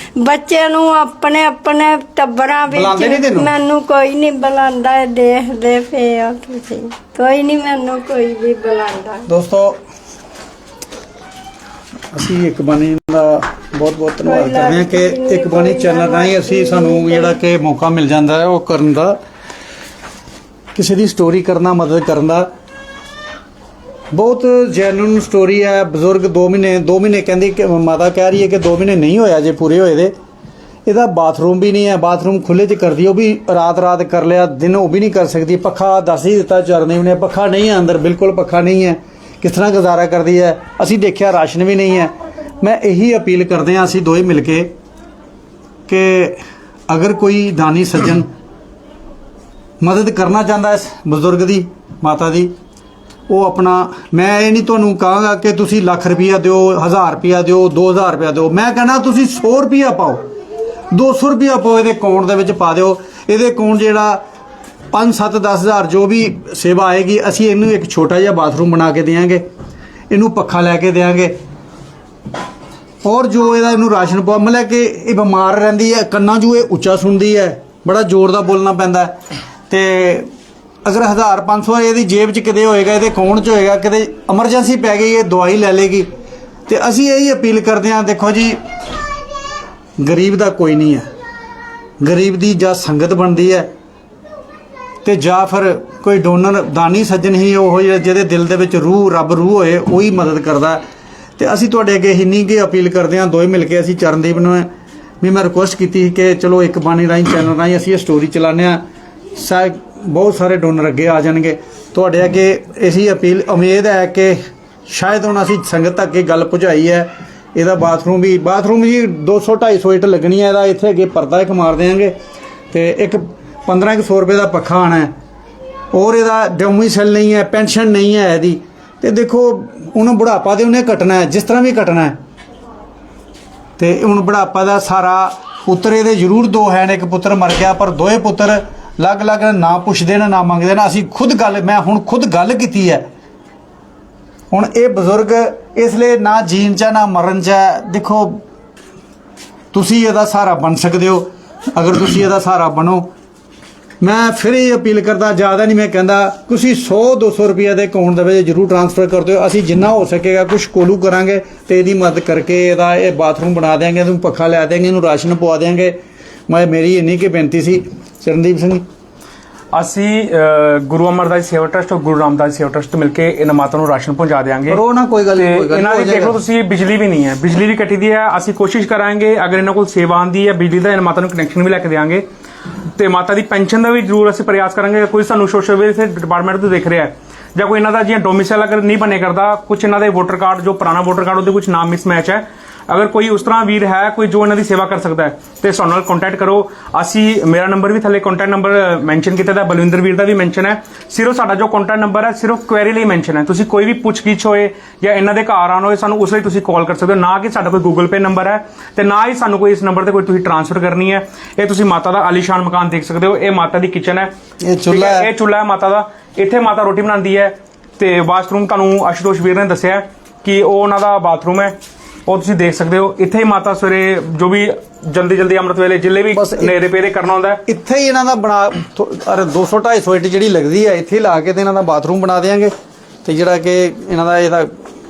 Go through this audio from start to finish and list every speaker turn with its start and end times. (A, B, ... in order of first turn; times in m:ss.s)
0:00.2-0:09.3 A
0:02.7-0:03.5 B
0:09.3-0:09.8 B
0:12.1-0:19.2 B
0:14.2-0:17.4 A
0:20.7-0:22.5 B
0:24.1-0:30.1 B
0:30.8-0:44.7 B
0:45.9-0:48.3 B
0:49.8-0:52.5 B
0:53.3-1:00.2 B
1:00.9-1:04.2 B
1:04.9-1:09.4 B
1:10.1-1:11.3 B
1:13.0-1:19.1 B
1:19.7-1:20.3 B
1:20.8-1:26.1 B
1:26.7-1:28.6 B
1:30.0-1:31.0 B
1:32.0-1:33.7 B
1:35.0-1:40.8 B
1:41.4-1:44.7 B
1:45.2-1:48.8 B
1:49.4-2:02.1 B
2:02.7-2:05.1 B
2:05.9-2:12.1 B
2:13.8-2:23.0 B
2:24.5-2:28.4 B
2:29.7-2:33.1 B
2:34.0-2:48.8 B
2:49.7-2:54.8 C
2:54.7-2:56.4 B
2:55.3-3:02.2 C
3:03.0-3:34.3 C
3:34.6-3:35.3 B
3:34.9-3:41.7 C
3:42.2-3:47.6 C
3:46.3-3:46.7 B
3:47.7-3:52.7 B
3:53.2-3:54.7 B